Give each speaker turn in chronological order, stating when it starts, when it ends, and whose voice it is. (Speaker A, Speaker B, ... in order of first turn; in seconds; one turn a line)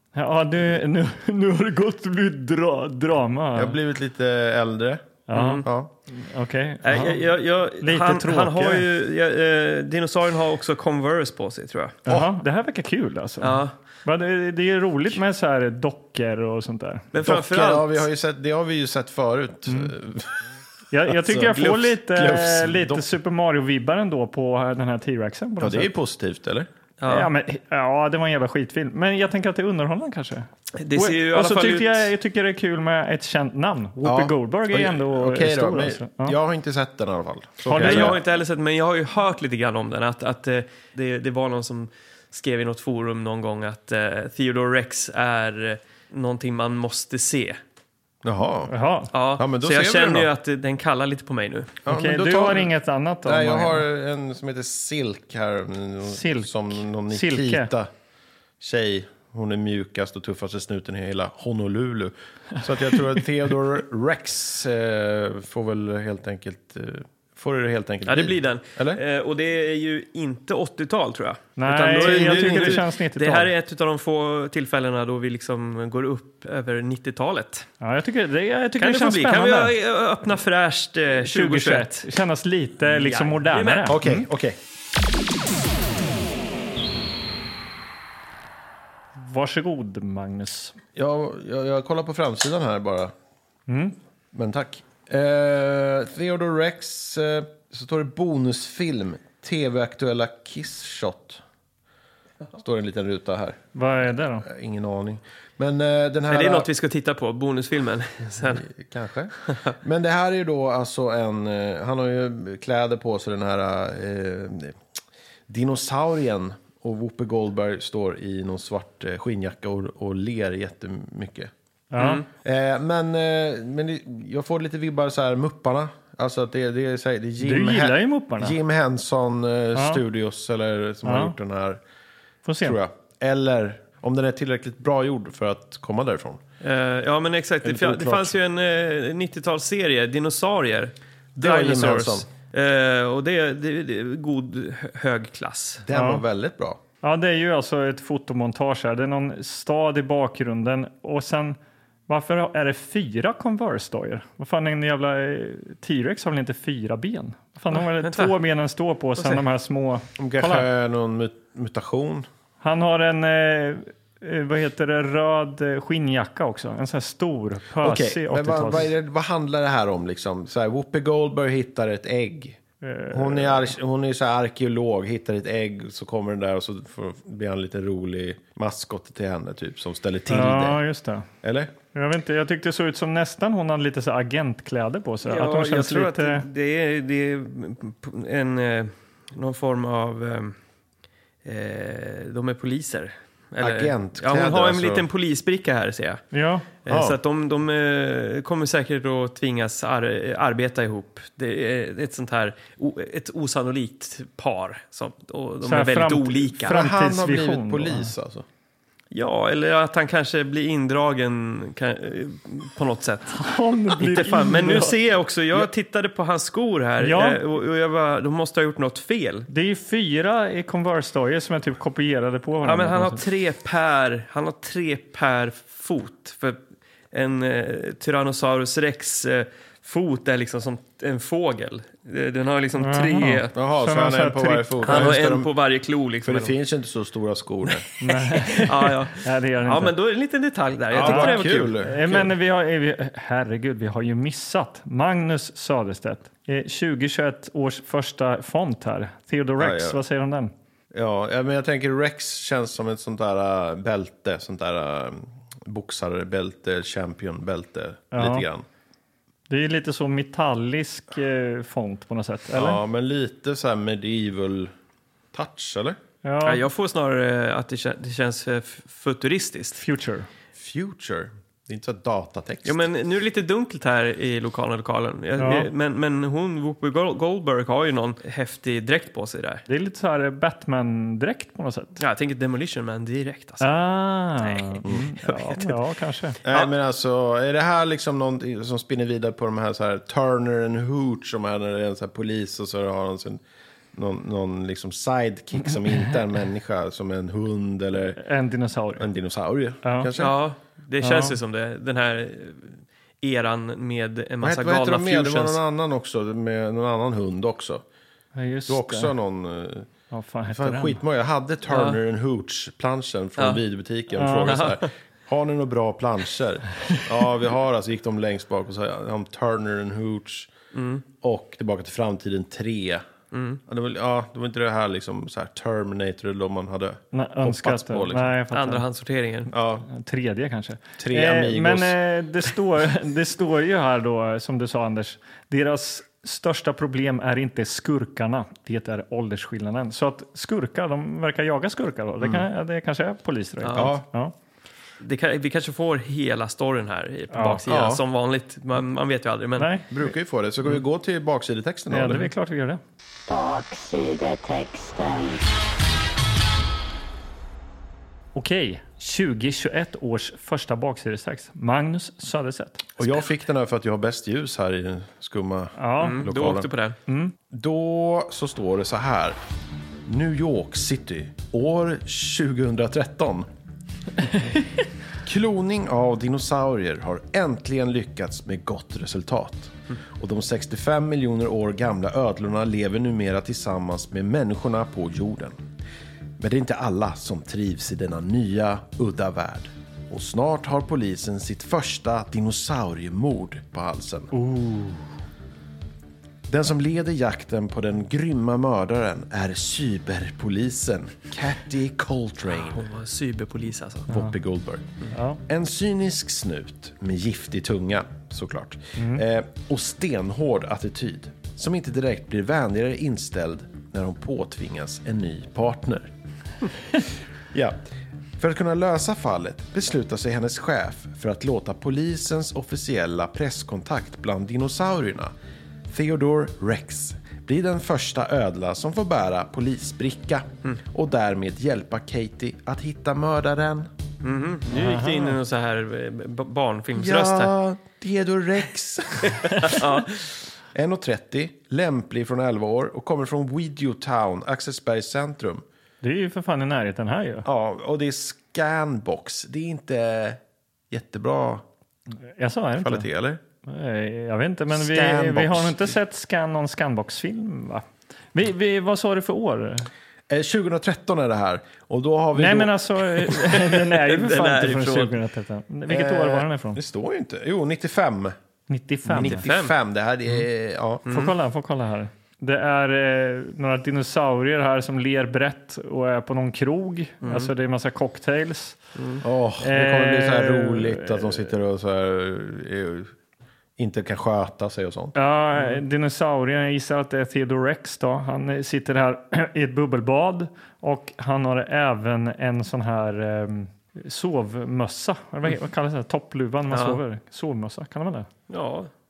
Speaker A: 0.1-3.8
Speaker B: 3.5-5.1
Speaker A: 5.3-7.3
Speaker C: 5.3-5.7
Speaker B: 5.6-5.9
Speaker C: 6.8-12.0
Speaker A: 7.8-8.9
Speaker A: 12.1-17.1
Speaker C: 13.4-13.7
Speaker C: 17.1-18.1
Speaker B: 17.2-20.4
Speaker A: 19.7-19.9
Speaker A: 20.9-25.9
Speaker B: 21.1-23.1
Speaker B: 25.6-26.7
Speaker C: 27.0-27.3
Speaker A: 27.1-36.4
Speaker C: 30.8-32.1
Speaker B: 34.0-38.2
Speaker A: 37.7-38.2
Speaker C: 37.7-47.6
Speaker B: 48.2-48.8
Speaker A: 48.7-49.1
Speaker C: 49.1-51.8
Speaker B: 49.4-50.3
Speaker B: 51.9-52.7
Speaker A: 51.9-53.9
Speaker B: 53.2-57.9
Speaker A: 56.1-57.7
Speaker B: 58.6-69.0
Speaker C: 68.1-77.7
Speaker A: 71.6-73.5
Speaker B: 71.9-72.8
Speaker A: 77.8-79.7
Speaker C: 78.8-82.0
Speaker A: 81.2-84.3
Speaker C: 82.8-84.0
Speaker B: 83.9-84.6
Speaker A: 89.2-90.8
Speaker B: 91.0-93.1
Speaker A: 93.7-94.0
Speaker B: 94.3-101.4
Speaker B: 102.6-103.6
Speaker A: 103.8-104.5
Speaker B: 104.4-106.7
Speaker C: 106.3-108.7
Speaker B: 108.7-114.8
Speaker C: 109.5-109.8
Speaker B: 115.5-121.5
Speaker A: 121.9-122.2
Speaker C: 122.0-122.3
Speaker B: 122.4-131.8
Speaker A: 127.4-128.6
Speaker A: 129.8-130.0
Speaker A: 131.0-131.3
Speaker A: 132.4-132.8
Speaker B: 132.6-136.4
Speaker C: 136.6-145.8
Speaker B: 137.6-138.3
Speaker B: 141.4-142.3
Speaker B: 145.9-146.8
Speaker A: 145.9-146.2
Speaker A: 147.0-160.7
Speaker C: 157.7-158.3
Speaker C: 159.2-159.4
Speaker B: 160.2-162.3
Speaker A: 162.6-168.9
Speaker B: 167.8-172.6
Speaker A: 172.8-173.7
Speaker B: 173.1-180.8
Speaker A: 180.3-181.3
Speaker B: 181.4-181.7
Speaker A: 181.9-186.5
Speaker C: 185.2-190.6
Speaker C: 191.4-196.3
Speaker B: 193.6-195.1
Speaker A: 196.3-196.7
Speaker C: 196.8-206.8
Speaker B: 196.9-197.2
Speaker A: 205.6-208.1
Speaker B: 206.7-208.4
Speaker C: 209.1-219.5
Speaker A: 213.3-215.0
Speaker A: 217.0-217.4
Speaker A: 219.5-223.2
Speaker C: 222.6-226.6
Speaker C: 227.1-233.6
Speaker A: 232.8-235.2
Speaker B: 233.6-235.5
Speaker C: 234.9-236.6
Speaker B: 236.2-237.9
Speaker A: 238.0-239.9
Speaker C: 238.0-241.8
Speaker B: 240.9-242.3
Speaker A: 241.0-250.5
Speaker B: 249.6-250.0
Speaker B: 250.9-258.6
Speaker A: 258.1-258.5
Speaker A: 259.5-262.8
Speaker B: 262.5-264.7
Speaker B: 265.3-266.0
Speaker A: 266.2-266.7
Speaker C: 266.4-269.8
Speaker A: 269.8-270.3
Speaker B: 270.6-272.9
Speaker C: 272.6-279.6
Speaker A: 275.4-275.7
Speaker A: 279.7-282.0
Speaker C: 282.0-283.7
Speaker A: 283.6-286.4
Speaker C: 284.4-285.8
Speaker C: 286.4-286.7
Speaker B: 286.4-293.4
Speaker B: 293.9-298.2
Speaker A: 298.2-299.1
Speaker B: 299.0-300.4
Speaker A: 299.8-300.1
Speaker C: 300.2-305.6
Speaker A: 301.0-301.4
Speaker B: 304.4-307.8
Speaker A: 308.4-309.1
Speaker B: 308.7-309.9
Speaker A: 310.1-311.0
Speaker B: 310.5-320.5
Speaker C: 311.7-312.0
Speaker A: 314.1-314.7
Speaker C: 314.5-314.9
Speaker C: 320.7-321.0
Speaker B: 321.2-323.1
Speaker C: 323.3-323.6
Speaker B: 323.7-328.3
Speaker A: 327.1-328.9
Speaker C: 328.5-329.5
Speaker B: 329.5-329.9
Speaker A: 329.9-344.3
Speaker B: 331.0-332.0
Speaker C: 343.6-343.9
Speaker B: 343.7-344.1
Speaker C: 345.0-349.7
Speaker A: 347.3-347.6
Speaker B: 347.7-348.0
Speaker A: 349.6-350.1
Speaker B: 349.9-352.3
Speaker A: 351.9-352.8
Speaker D: 353.3-355.4
Speaker A: 358.4-362.9
Speaker B: 363.0-366.7
Speaker A: 365.8-366.3
Speaker C: 366.0-367.0
Speaker A: 367.1-367.4
Speaker B: 367.5-369.4
Speaker B: 370.1-373.5
Speaker B: 375.2-385.6
Speaker B: 386.4-394.3
Speaker A: 394.3-395.1
Speaker B: 396.5-402.9
Speaker C: 402.5-404.1
Speaker A: 404.1-404.3
Speaker B: 404.1-404.9
Speaker A: 405.1-405.4
Speaker B: 405.5-416.1
Speaker A: 409.0-409.2
Speaker B: 417.5-417.8
Speaker B: 418.4-425.3
Speaker B: 425.9-433.9
Speaker C: 434.2-437.5
Speaker A: 434.7-435.4
Speaker B: 436.9-439.8
Speaker C: 439.6-440.2
Speaker B: 440.7-445.6
Speaker A: 446.0-447.5
Speaker B: 447.4-451.6
Speaker A: 452.3-453.1
Speaker B: 452.8-453.4
Speaker A: 453.6-459.9
Speaker B: 454.7-455.9
Speaker B: 460.3-462.8
Speaker A: 462.4-466.8
Speaker C: 463.3-465.2
Speaker B: 465.9-468.4
Speaker A: 468.7-469.5
Speaker B: 469.1-471.1
Speaker C: 469.2-469.7
Speaker C: 471.1-471.4
Speaker A: 471.1-478.8
Speaker C: 477.2-477.5
Speaker C: 479.0-479.2
Speaker B: 479.2-483.1
Speaker A: 479.6-481.5
Speaker B: 483.8-485.2
Speaker A: 485.1-498.3
Speaker C: 496.7-497.0
Speaker C: 498.5-498.9